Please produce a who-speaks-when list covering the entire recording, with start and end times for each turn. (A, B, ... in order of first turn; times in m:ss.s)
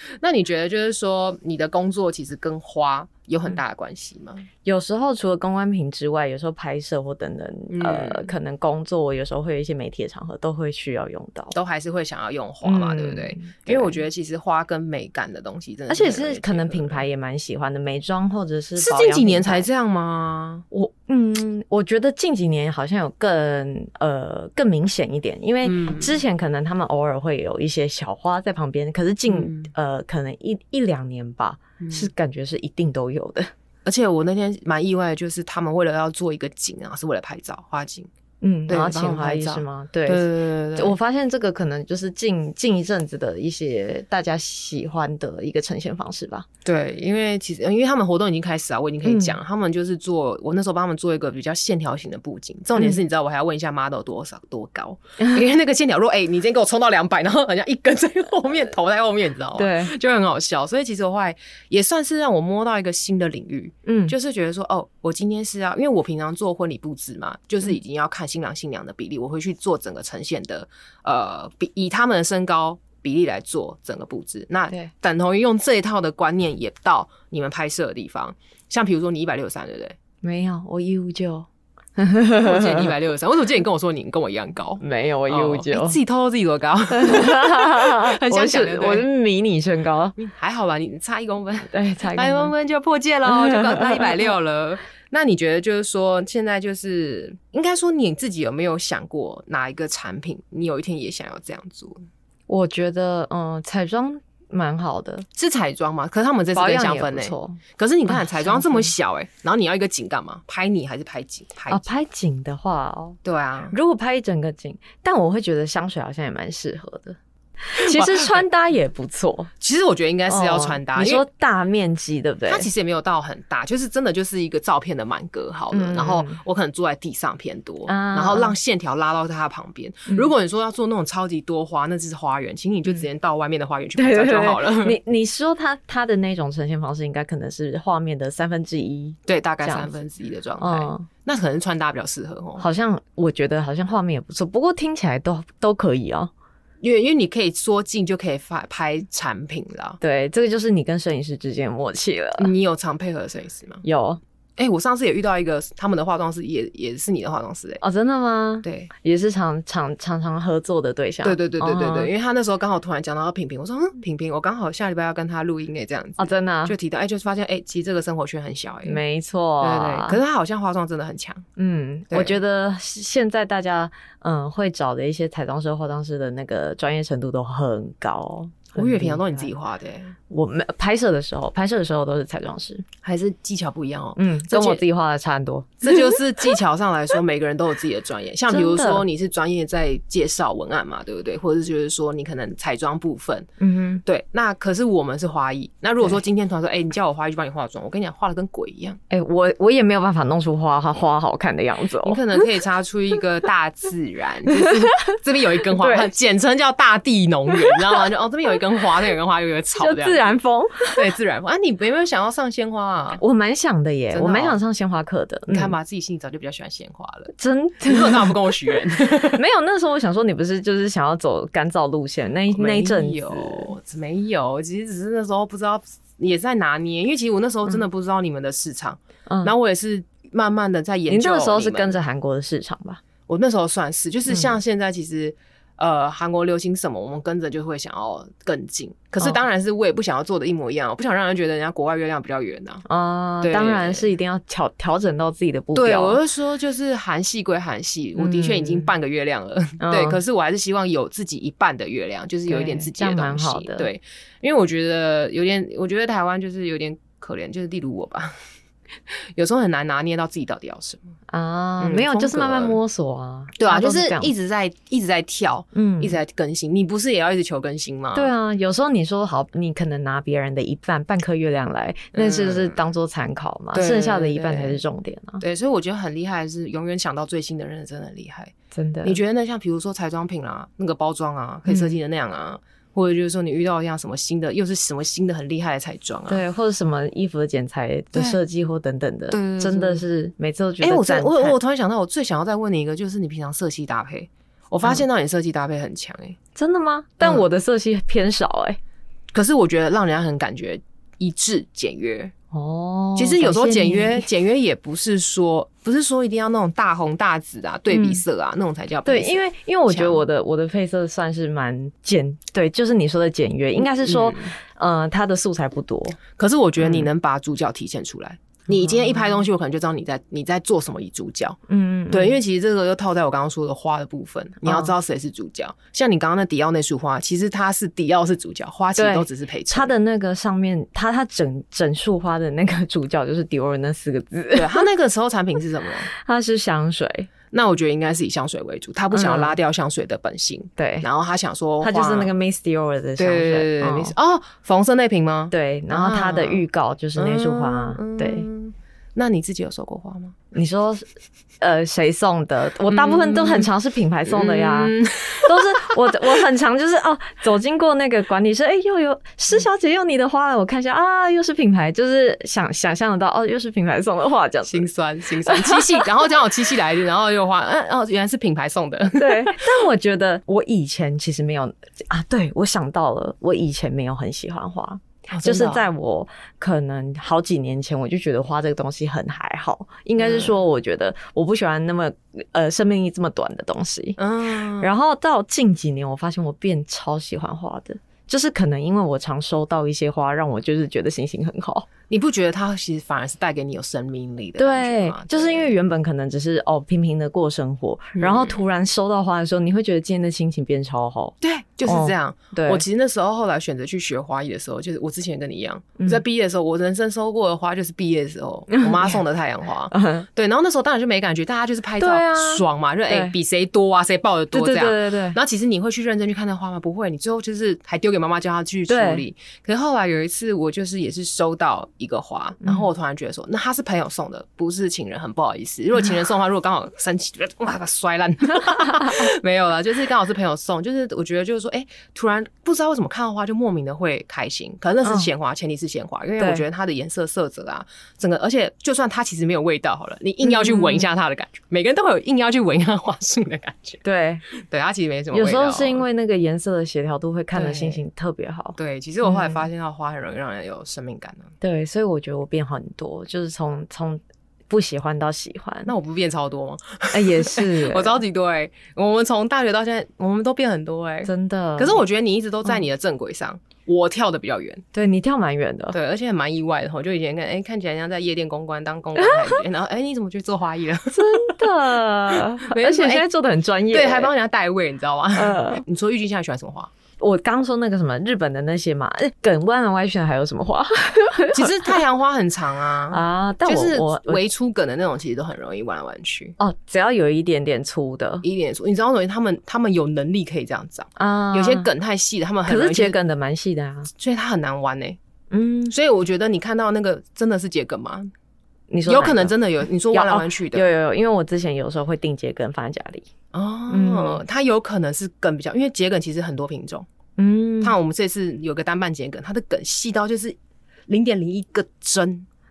0:00.2-0:04.5 A
0:04.6-0:11.6 B
0:07.7-0:08.3 A
0:11.5-0:17.0 A
0:12.6-0:14.0 B
0:15.9-0:19.7 B
0:18.8-0:20.6 A
0:20.7-0:33.5 B
0:25.6-0:26.2 A
0:29.3-0:29.7 A
0:31.8-0:32.1 A
0:33.8-0:38.1 A
0:38.4-0:46.5 B
0:38.7-0:41.0 A
0:46.6-1:20.0 A
0:49.0-0:49.4 B
0:59.6-1:00.0 B
1:03.9-1:04.2 B
1:20.2-1:22.9 B
1:22.4-1:29.1 A
1:24.8-1:26.0 B
1:26.9-1:30.2 B
1:30.2-1:42.0 A
1:31.7-1:32.5 B
1:33.3-1:34.3 B
1:42.5-1:45.3 B
1:45.4-1:51.8 A
1:46.5-1:48.9 B
1:51.7-1:53.2 B
1:53.2-1:53.8 A
1:53.7-1:59.5 B
1:57.8-1:58.4 A
1:59.6-2:01.2 A
2:00.3-2:02.7 B
2:02.5-2:15.0 A
2:05.7-2:06.4 B
2:07.9-2:08.6 B
2:14.0-2:19.9 B
2:19.3-2:22.6 A
2:20.6-2:21.1 B
2:22.6-2:26.3 B
2:26.8-2:30.0 A
2:30.0-2:32.5 B
2:32.4-2:33.8 A
2:33.8-2:34.2 B
2:34.6-2:37.8 A
2:37.8-2:42.1 B
2:38.6-2:38.9 A
2:41.2-2:49.0 A
2:46.2-2:46.8 B
2:48.9-2:50.2 B
2:49.6-2:51.4 A
2:51.6-2:59.5 B
2:52.1-2:52.4 A
2:58.8-3:00.2 A
3:00.3-3:02.8 B
3:03.0-3:04.8 A
3:04.2-3:06.2 B
3:05.8-3:13.5 A
3:08.5-3:09.0 B
3:13.6-3:14.0 B
3:14.1-3:19.0 A
3:19.1-3:22.2 B
3:22.0-3:30.3 A
3:24.5-3:25.2 B
3:25.8-3:26.1 B
3:29.8-3:31.0 B
3:30.9-3:33.2 A
3:33.2-3:35.8 B
3:34.1-3:34.6 A
3:35.5-3:39.4 A
3:37.4-3:38.4 B
3:39.0-3:43.7 B
3:42.5-3:52.0 A
3:49.3-3:49.5 B
3:51.1-3:53.0 B
3:53.3-4:02.8 A
3:54.3-3:54.6 B
4:02.9-4:06.2 B
4:03.4-4:04.1 A
4:05.7-4:18.4 A
4:08.2-4:08.9 B
4:09.8-4:10.2 B
4:12.5-4:13.9 B
4:19.1-4:21.0 A
4:21.3-4:24.3 B
4:21.8-4:22.8 A
4:23.6-4:28.3 A
4:25.8-4:26.2 B
4:28.1-4:35.4 B
4:32.1-4:32.8 A
4:33.7-4:34.8 A
4:35.4-4:46.4 A
4:38.7-4:39.2 B
4:41.7-4:42.0 B
4:46.3-4:51.6 B
4:48.1-4:48.4 A
4:49.3-4:50.0 A
4:50.8-4:56.4 A
4:56.6-4:58.8 B
4:59.3-5:02.3 A
5:02.5-5:04.3 B
5:03.2-5:10.2 A
5:07.9-5:08.2 B
5:09.0-5:16.2 B
5:14.0-5:14.5 A
5:16.3-5:21.6 A
5:16.8-5:17.1 B
5:18.7-5:19.3 B
5:21.7-5:22.4 B
5:22.1-5:29.9 A
5:24.6-5:24.9 B
5:29.0-5:34.9 B
5:34.6-5:36.1 A
5:36.1-5:37.3 B
5:37.5-5:42.3 A
5:39.1-5:39.6 B
5:40.8-5:41.1 B
5:41.8-5:44.2 B
5:43.2-5:46.6 A
5:45.5-5:48.5 B
5:47.2-5:50.4 A
5:50.5-5:51.1 B
5:51.6-6:04.9 B
5:52.9-5:53.7 A
5:54.3-5:56.0 A
6:04.7-6:09.7 A
6:05.4-6:06.1 B
6:09.2-6:24.2 B
6:15.3-6:15.8 A
6:20.2-6:20.5 A
6:24.2-6:24.9 A
6:24.8-6:31.9 B
6:32.1-6:35.8 A
6:34.6-6:41.4 B
6:38.2-6:38.6 A
6:41.4-7:26.0 A
6:41.9-6:42.8 B
6:48.7-6:49.2 B
6:49.9-6:50.3 B
6:52.0-6:53.3 B
6:54.5-6:55.4 B
6:58.9-6:59.2 B
7:15.0-7:15.3 B
7:16.4-7:16.7 B
7:20.4-7:21.1 B
7:24.0-7:24.4 B
7:25.3-7:29.6 B
7:27.6-7:28.0 A
7:28.8-7:31.5 A
7:31.6-7:35.9 B
7:35.9-7:44.8 A
7:37.1-7:38.2 B
7:41.2-7:42.0 B
7:44.9-7:46.0 B
7:45.9-7:51.6 A
7:49.2-7:49.5 B
7:51.1-7:54.3 B
7:52.3-7:53.3 A
7:53.9-7:56.9 A
7:55.4-7:55.8 B
7:57.2-8:01.9 B
8:01.5-8:06.6 A
8:03.1-8:04.4 B
8:06.6-8:08.5 B
8:08.4-8:13.2 A
8:11.2-8:11.9 B
8:12.7-8:14.1 B
8:14.2-8:15.2 A
8:15.5-8:16.0 B
8:15.9-8:18.3 A
8:18.9-8:19.6 B
8:19.1-8:20.8 A
8:20.1-8:23.3 B
8:23.5-8:27.1 A
8:23.9-8:24.4 B
8:27.4-8:28.0 B
8:27.8-8:30.6 A
8:31.1-8:32.5 A